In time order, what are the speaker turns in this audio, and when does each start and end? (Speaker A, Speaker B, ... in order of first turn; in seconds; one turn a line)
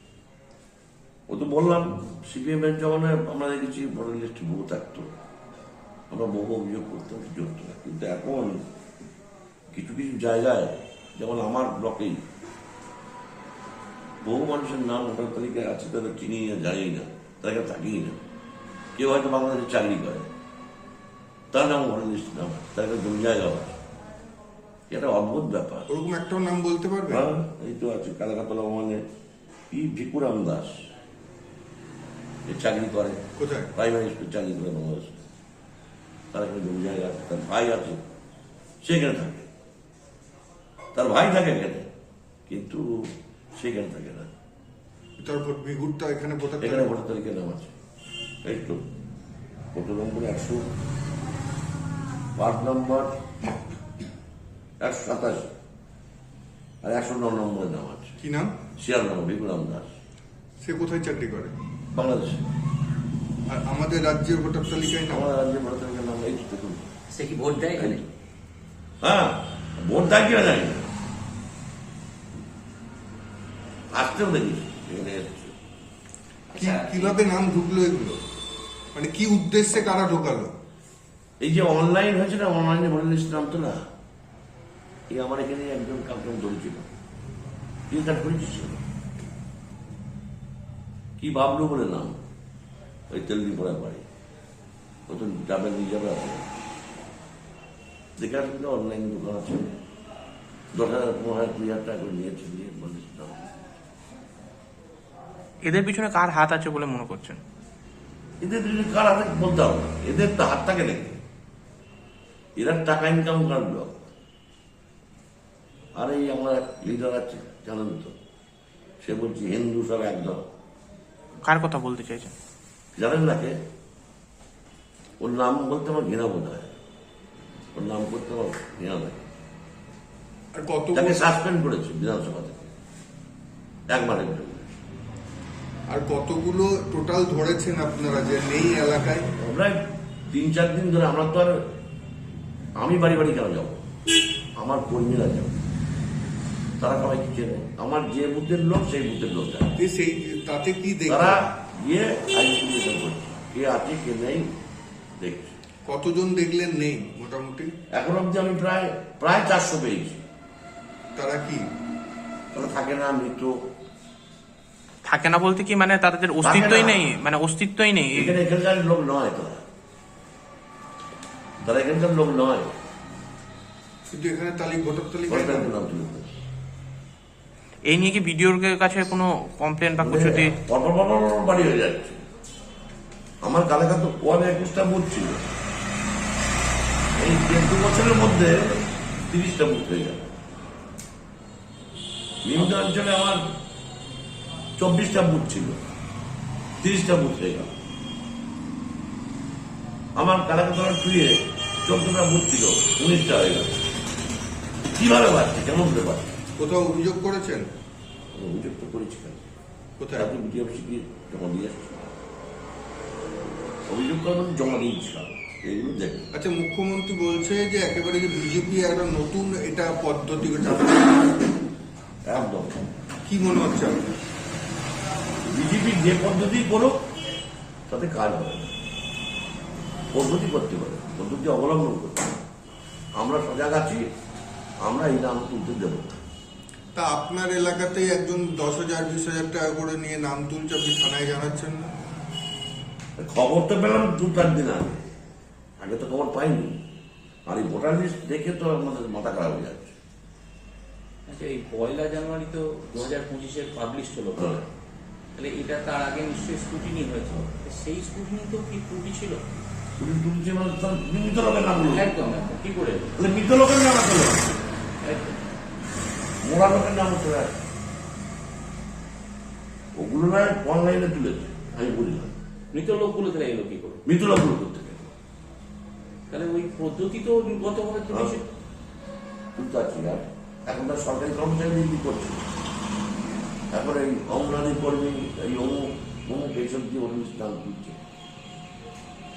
Speaker A: 1.3-5.0
Speaker A: 6.1-8.7
Speaker A: 9.7-12.2
Speaker A: 14.2-18.2
Speaker A: 18.9-20.3
Speaker A: 21.5-23.8
Speaker A: 24.9-25.9
Speaker B: 25.9-27.2
Speaker A: 27.1-29.0
Speaker A: 29.7-30.7
Speaker A: 32.5-33.2
Speaker B: 33.4-33.7
Speaker A: 33.7-35.2
Speaker A: 36.3-38.0
Speaker A: 38.8-39.5
Speaker A: 40.9-41.9
Speaker A: 42.5-44.3
Speaker B: 45.2-47.0
Speaker A: 46.6-47.7
Speaker A: 48.4-48.8
Speaker A: 49.7-50.6
Speaker A: 52.4-53.2
Speaker A: 54.8-55.5
Speaker A: 56.8-58.1
Speaker B: 58.2-58.5
Speaker A: 58.8-59.9
Speaker B: 60.6-61.5
Speaker A: 61.9-62.4
Speaker B: 63.5-65.3
Speaker A: 65.1-66.9
Speaker C: 67.1-68.0
Speaker A: 67.7-68.1
Speaker A: 69.0-70.9
Speaker A: 73.9-75.5
Speaker C: 76.5-77.2
Speaker B: 76.5-78.2
Speaker B: 78.9-80.5
Speaker A: 81.4-83.8
Speaker A: 85.1-86.9
Speaker A: 87.9-88.8
Speaker A: 91.2-92.2
Speaker A: 93.1-94.0
Speaker A: 95.1-96.4
Speaker A: 98.2-99.7
Speaker A: 100.7-103.6
Speaker D: 105.6-107.4
Speaker A: 108.4-111.2
Speaker A: 112.6-114.0
Speaker A: 115.9-118.1
Speaker A: 119.0-120.4
Speaker D: 121.4-122.3
Speaker A: 122.9-123.5
Speaker A: 125.2-126.7
Speaker A: 127.7-129.2
Speaker B: 130.5-131.3
Speaker A: 130.9-132.7
Speaker A: 133.9-134.8
Speaker B: 135.9-139.3
Speaker A: 139.4-141.6
Speaker A: 142.8-143.8
Speaker A: 144.6-145.6
Speaker A: 146.8-149.7
Speaker B: 149.8-151.5
Speaker A: 151.1-154.5
Speaker A: 155.2-155.6
Speaker B: 155.8-157.7
Speaker A: 157.9-160.2
Speaker B: 161.2-161.6
Speaker A: 162.5-163.6
Speaker D: 165.0-168.3
Speaker A: 166.4-167.1
Speaker A: 168.1-169.6
Speaker A: 171.6-172.7
Speaker B: 174.1-175.7
Speaker A: 175.3-176.3
Speaker D: 177.9-180.5
Speaker A: 180.0-182.2
Speaker A: 183.4-185.4
Speaker A: 187.2-190.3
Speaker A: 192.4-193.5
Speaker A: 194.8-195.8
Speaker A: 196.8-197.7
Speaker A: 200.2-203.7
Speaker A: 204.9-206.3
Speaker B: 206.6-207.6
Speaker A: 208.3-209.5
Speaker B: 210.0-210.3
Speaker A: 210.2-212.1
Speaker A: 213.9-216.3
Speaker B: 216.3-221.3
Speaker A: 222.2-222.8
Speaker B: 223.2-224.0
Speaker A: 225.5-227.0
Speaker A: 227.9-228.7
Speaker A: 230.1-232.4
Speaker A: 233.2-234.0
Speaker A: 234.8-236.2
Speaker B: 236.9-241.9
Speaker A: 243.2-245.0
Speaker A: 245.8-246.8
Speaker A: 247.5-249.9
Speaker C: 251.3-254.6
Speaker A: 254.4-254.6
Speaker C: 255.3-259.4
Speaker A: 260.0-262.1
Speaker C: 261.8-263.1
Speaker A: 263.2-264.5
Speaker C: 265.0-265.4
Speaker A: 266.4-267.6
Speaker A: 269.9-272.3
Speaker C: 272.7-274.0
Speaker A: 274.1-275.1
Speaker C: 276.3-278.4
Speaker A: 278.1-278.4
Speaker A: 279.5-282.4
Speaker A: 283.7-288.0